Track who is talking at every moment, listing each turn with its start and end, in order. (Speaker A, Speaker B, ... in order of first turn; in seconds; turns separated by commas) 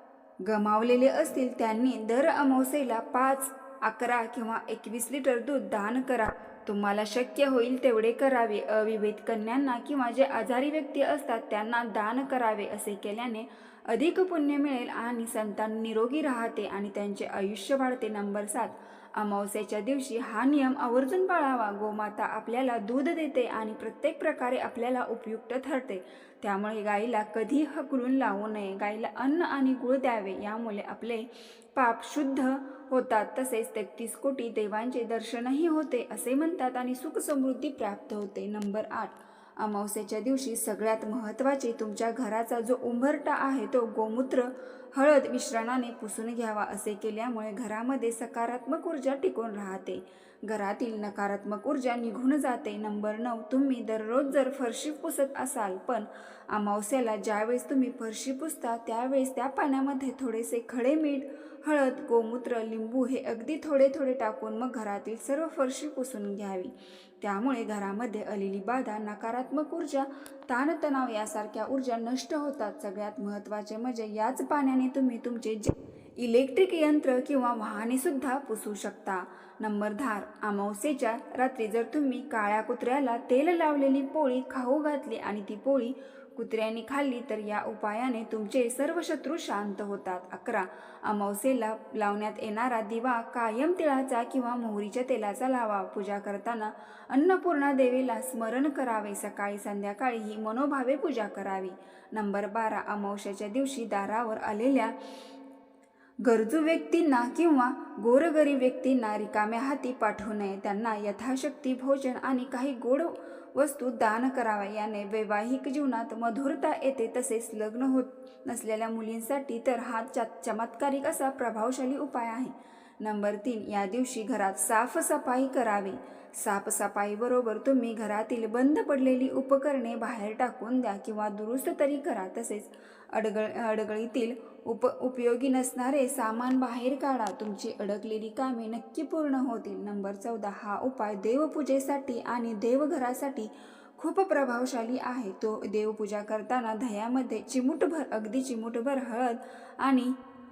Speaker A: 0.4-104.9, Speaker A: 106.2-150.1